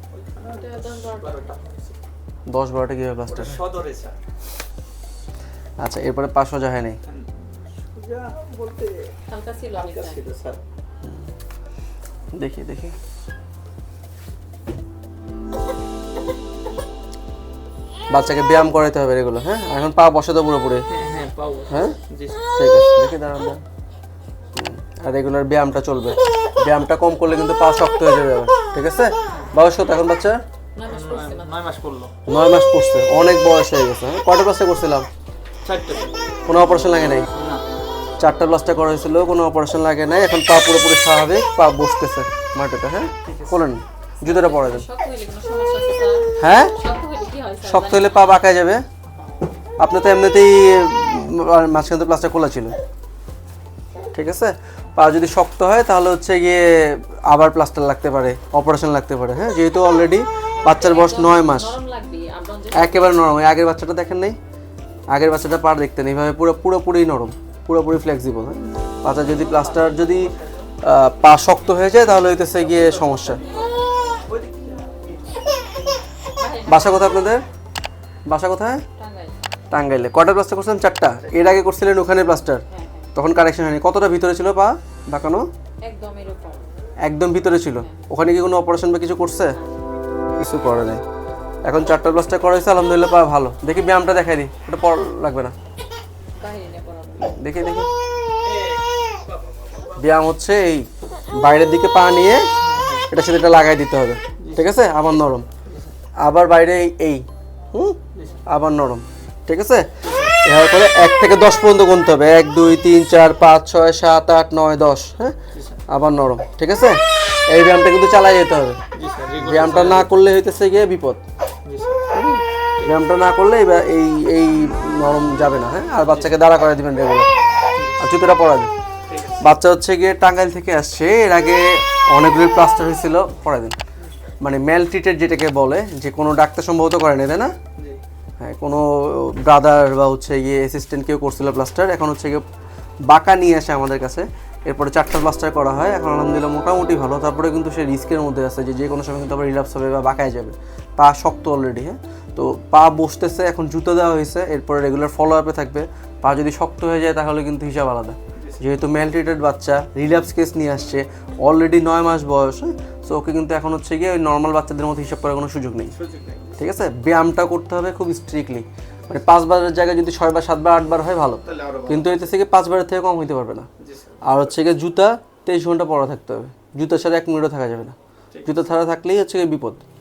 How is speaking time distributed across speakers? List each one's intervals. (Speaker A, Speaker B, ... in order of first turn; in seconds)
Speaker A: 0.1-2.0, 3.3-4.2, 7.0-10.6, 20.9-22.4, 30.9-32.1, 35.6-36.1, 37.3-37.6, 43.2-43.7, 49.1-49.5, 69.5-70.5, 72.5-75.1, 98.5-98.8, 99.5-99.9, 102.6-103.1, 104.4-104.8, 105.6-105.9, 108.1-108.4, 110.0-110.4, 115.5-115.8, 118.9-120.2, 121.6-122.0, 126.1-126.3, 127.7-128.0, 129.1-129.5, 158.3-158.7, 165.9-166.6, 171.4-172.3, 173.8-174.5, 178.3-178.7
Speaker B: 0.4-1.7, 9.2-10.2, 30.8-31.7, 44.2-48.4, 60.6-63.4, 76.4-77.2, 79.0-79.4, 82.7-83.1, 85.8-86.7, 87.7-88.0, 96.4-97.4
Speaker C: 2.5-3.6, 5.8-7.0, 12.3-12.9, 18.1-20.9, 21.7-22.0, 22.5-23.6, 24.5-30.4, 32.3-35.1, 36.5-37.3, 38.2-44.8, 46.4-46.7, 47.6-48.8, 49.8-52.8, 54.1-61.7, 62.7-64.4, 65.1-73.4, 76.7-77.4, 78.3-78.8, 79.7-82.6, 83.1-85.5, 87.0-89.6, 90.4-91.0, 91.7-95.5, 97.3-97.9, 99.9-100.9, 101.4-102.4, 103.1-105.5, 106.2-109.9, 110.4-115.3, 115.9-118.8, 119.4-121.2, 122.1-127.3, 128.0-128.7, 129.4-133.8, 134.4-137.5, 138.4-142.4, 143.1-165.9, 166.6-173.7, 174.2-179.8